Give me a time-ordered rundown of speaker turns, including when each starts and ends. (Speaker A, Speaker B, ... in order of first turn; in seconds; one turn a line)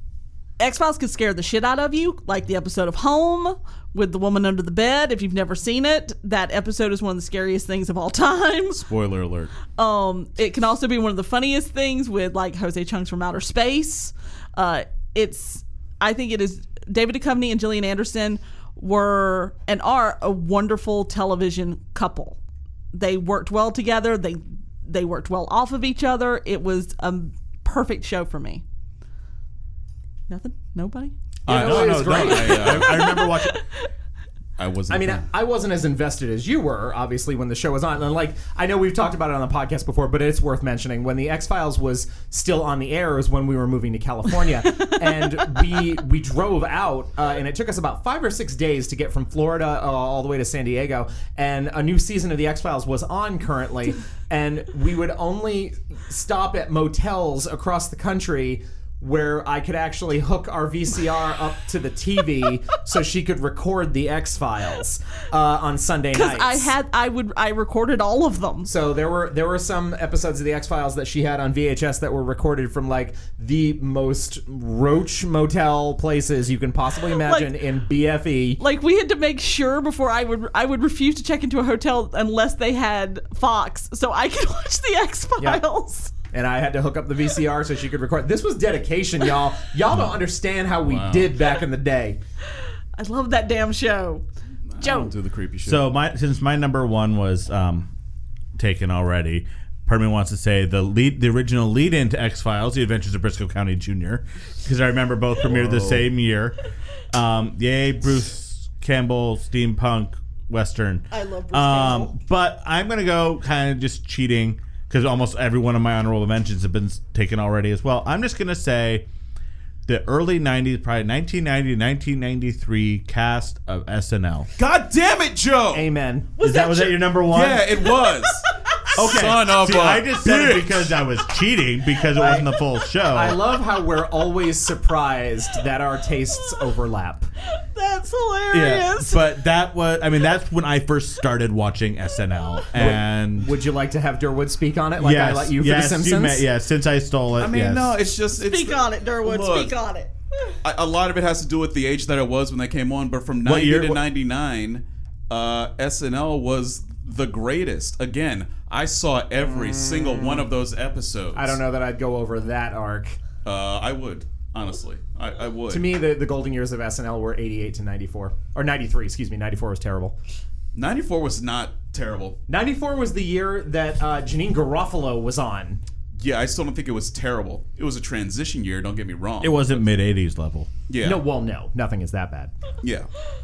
Speaker A: 0.6-8.8
Speaker B: 8.7-9.5
Speaker A: 9.7-22.4
Speaker A: 22.9-28.6
Speaker A: 30.3-31.1
Speaker B: 31.4-33.1
Speaker C: 31.5-32.9
Speaker D: 31.5-33.6
Speaker A: 32.1-33.8
Speaker B: 34.6-35.3
Speaker C: 34.9-66.7
Speaker A: 66.1-68.7
Speaker C: 68.7-78.6
Speaker A: 77.1-77.5
Speaker A: 78.6-86.1
Speaker C: 85.4-85.6
Speaker C: 86.3-92.2
Speaker B: 90.8-91.4
Speaker A: 93.0-94.2
Speaker B: 94.7-95.9
Speaker A: 94.8-95.1
Speaker D: 95.7-97.9
Speaker D: 98.6-106.6
Speaker B: 105.4-106.1
Speaker D: 107.1-119.0
Speaker A: 111.1-112.1
Speaker D: 119.9-124.5
Speaker B: 124.6-125.9
Speaker C: 125.7-126.3
Speaker A: 126.4-127.2
Speaker D: 126.4-127.8
Speaker B: 127.3-131.0
Speaker A: 128.0-128.6
Speaker D: 128.9-133.4
Speaker C: 132.2-132.5
Speaker C: 133.1-137.3
Speaker A: 137.5-139.2
Speaker D: 138.5-143.5
Speaker C: 142.7-146.4
Speaker D: 145.0-148.0
Speaker B: 147.3-149.8
Speaker A: 148.3-150.5
Speaker B: 150.6-161.6
Speaker D: 153.4-154.0
Speaker C: 159.4-160.5
Speaker C: 161.3-163.2
Speaker B: 163.4-165.9
Speaker C: 165.7-170.2
Speaker B: 170.7-172.4
Speaker C: 172.5-175.8
Speaker B: 176.2-179.8
Speaker D: 179.4-180.7
Speaker B: 180.9-181.2
Speaker C: 181.0-182.5
Speaker B: 182.8-183.1